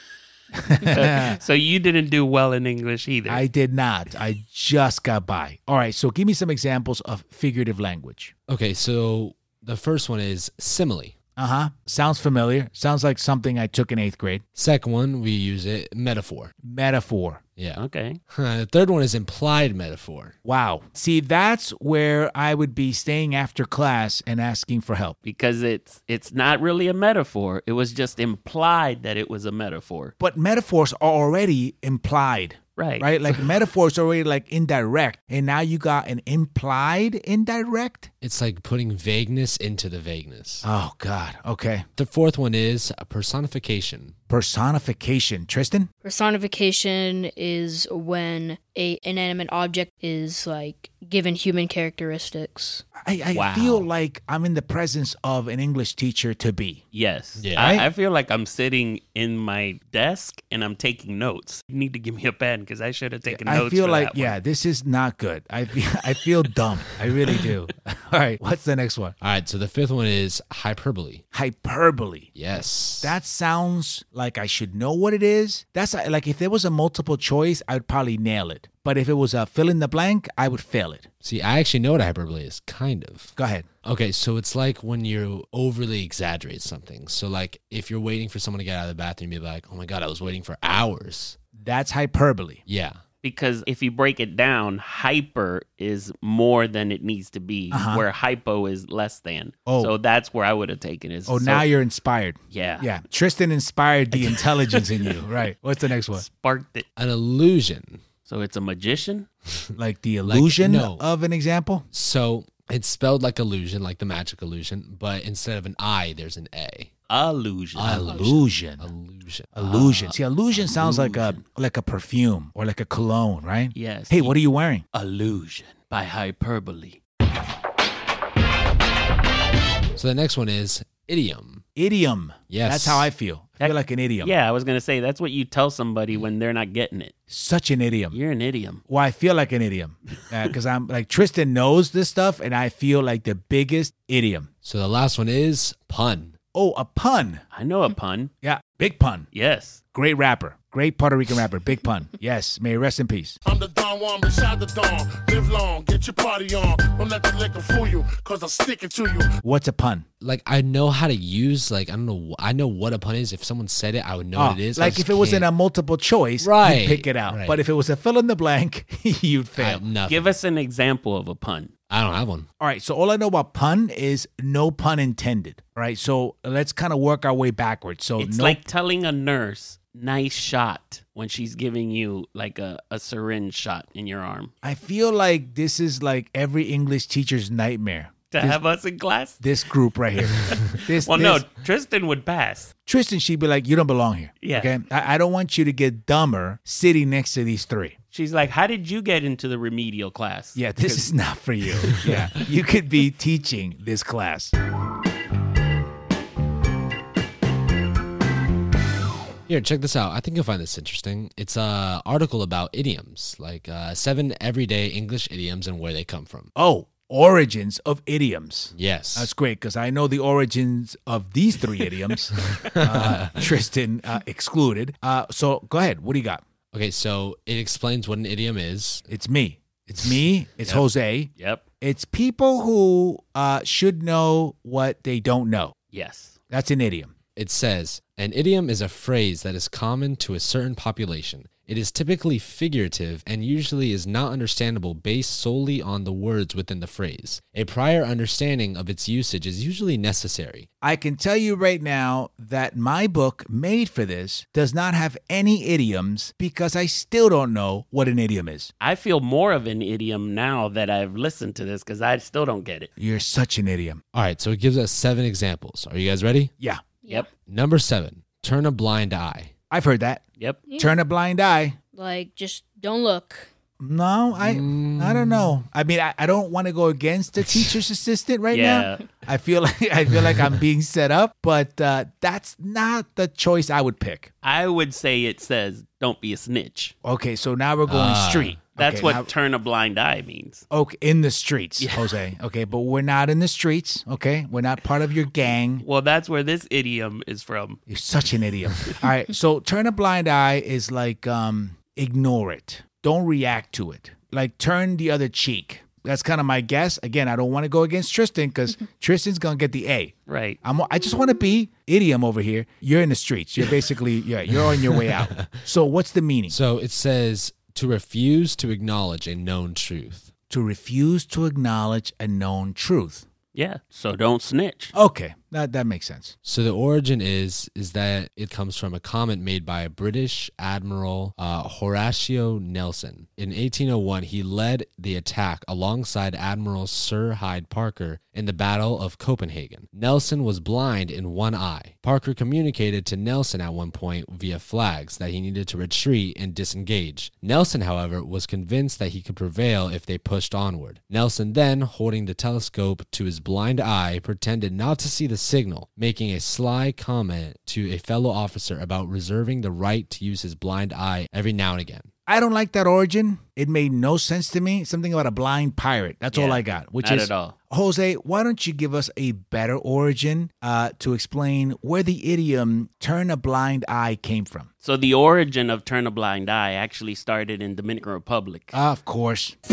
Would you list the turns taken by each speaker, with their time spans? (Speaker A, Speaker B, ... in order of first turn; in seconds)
Speaker A: 0.5-1.4, 3.3-8.3, 11.4-14.4, 16.6-17.4, 20.4-25.1, 30.2-38.1, 40.6-41.9, 44.3-45.9, 53.0-56.8, 57.5-57.9, 63.3-69.2, 71.3-72.3, 73.0-81.1, 83.3-83.7, 91.6-92.6, 97.7-98.0, 99.7-99.9, 101.2-106.2, 109.8-111.8, 118.0-118.9, 119.5-124.8, 131.8-134.3, 137.3-138.2, 138.9-144.5, 146.5-147.4, 148.4-149.3, 149.9-153.4, 159.4-160.1, 164.3-169.8, 172.6-178.6, 184.6-188.6, 189.4-191.4, 192.8-197.9, 200.5-204.5, 216.6-226.4, 229.1-235.7, 236.5-237.1, 250.8-258.7, 263.0-264.0, 269.7-270.2, 270.8-271.8, 273.8-284.3, 287.0-289.3, 290.7-295.8, 297.9-316.6, 320.5-323.2, 324.9-326.3, 362.3-374.7, 378.7-379.6
Speaker B: 0.9-3.4, 17.8-18.2, 25.2-30.1, 32.8-33.3, 53.3-53.9, 56.9-64.3, 93.2-101.7, 102.5-102.9, 104.1-105.1, 106.2-106.8, 108.3-109.3, 117.1-118.2, 120.8-121.4, 123.7-124.4, 124.9-127.0, 133.6-137.1, 138.1-138.8, 147.5-148.3, 149.3-149.8, 170.1-171.7, 178.2-184.5, 188.3-189.4, 190.4-192.7, 194.4-194.7, 198.1-201.1, 231.4-231.6, 235.9-236.4, 258.8-262.9, 278.5-279.1, 284.4-286.9, 288.8-290.6, 291.8-292.1, 295.8-297.8, 310.3-310.6, 323.5-324.9, 366.3-367.5, 374.8-378.8
Speaker C: 8.5-11.1, 14.6-16.5, 17.6-20.3, 38.2-40.6, 42.0-44.1, 57.4-57.7, 69.2-71.2, 72.3-73.1, 81.2-91.3, 92.7-93.0, 107.0-108.0, 110.2-111.0, 111.9-116.9, 117.8-120.1, 129.9-131.6, 132.5-133.1, 144.6-146.3, 160.2-165.5, 166.4-167.6, 169.6-170.3, 171.9-172.5, 209.5-216.5, 218.7-219.3, 222.6-223.4, 226.7-229.0, 237.3-250.7, 264.1-266.5, 267.5-269.5, 274.4-275.5, 287.9-288.6, 314.9-315.6, 316.5-320.3, 326.4-362.1
Speaker D: 46.0-52.8, 271.9-273.5
Speaker E: 153.4-159.3